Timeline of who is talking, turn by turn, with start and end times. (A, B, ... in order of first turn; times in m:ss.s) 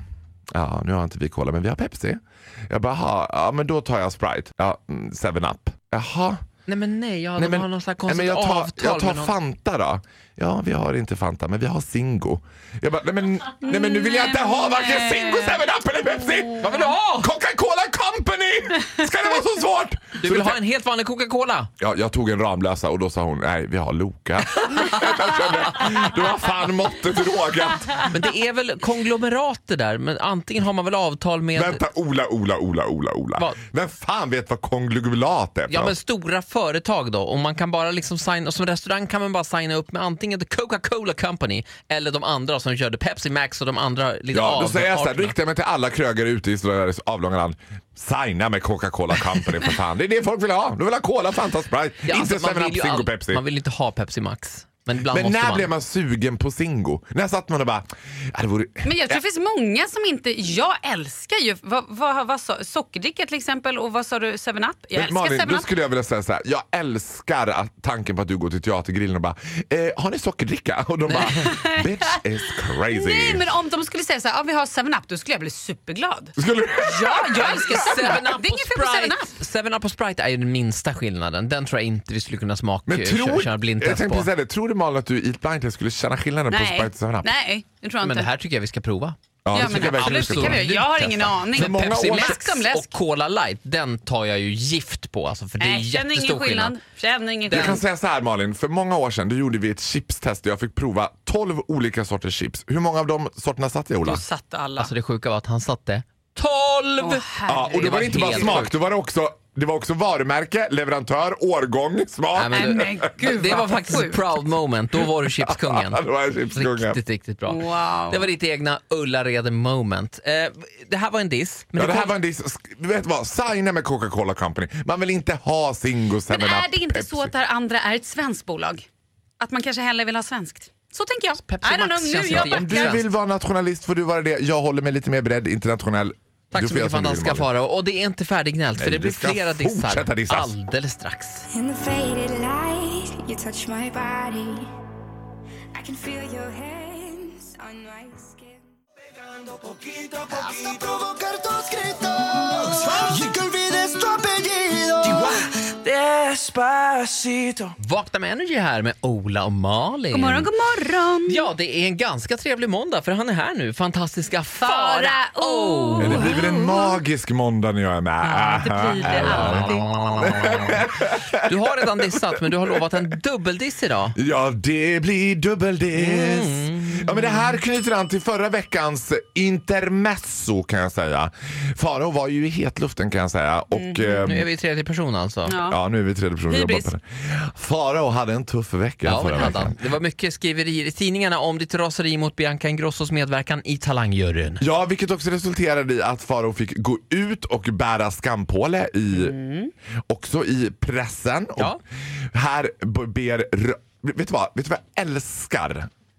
0:00.5-0:06.4 A
0:06.7-0:09.3 B
0:07.4-0:20.6 A
0:13.6-0:15.6 C
0:16.6-0:17.3 B
0:20.2-0:21.7 B
0:21.8-0:28.2 A
0:28.1-0:31.8 B
0:31.6-0:36.0 A
0:35.7-0:45.3 B
0:44.3-0:53.4 A
0:52.1-0:55.7 B
0:55.1-0:59.2 A
0:58.8-1:05.7 C
1:04.9-1:13.5 A
1:11.1-1:11.4 B
1:11.4-1:12.2 C
1:12.9-1:19.3 C
1:16.4-1:18.2 A
1:17.4-1:24.3 B
1:22.9-1:27.3 A
1:26.5-1:28.3 C
1:28.0-1:36.8 B
1:29.4-1:30.7 A
1:29.5-1:32.9 C
1:31.5-1:32.4 A
1:35.6-1:37.8 C
1:37.5-1:44.2 A
1:37.5-1:37.8 B
1:44.0-1:44.9 C
1:44.8-1:47.2 B
1:47.0-1:48.6 C
1:47.5-1:53.6 A
1:47.8-1:48.7 B
1:52.4-2:02.2 B
1:52.5-1:54.3 C
1:55.0-1:57.0 A
1:57.5-1:58.3 C
2:01.8-2:07.3 A
2:06.3-2:08.8 C
2:09.4-2:13.0 C
2:11.4-2:13.0 B
2:12.3-2:17.5 A
2:16.5-2:21.5 B
2:18.8-2:20.5 A
2:21.5-2:24.7 D
2:25.7-2:28.6 D
2:29.4-2:37.7 E
2:37.8-2:40.5 B
2:40.1-2:41.5 C
2:41.3-2:46.4 B
2:44.6-2:47.0 C
2:46.0-2:51.4 A
2:48.2-2:50.6 C
2:49.0-2:54.2 B
2:54.2-3:04.5 A
2:55.9-2:57.6 B
3:03.7-3:04.3 C
3:04.2-3:05.6 B
3:05.5-3:05.8 C
3:05.7-3:09.8 A
3:06.5-3:06.9 C
3:09.0-3:14.6 B
3:14.6-3:19.4 A
3:19.1-3:19.7 C
3:20.1-3:21.8 A
3:22.3-3:25.9 A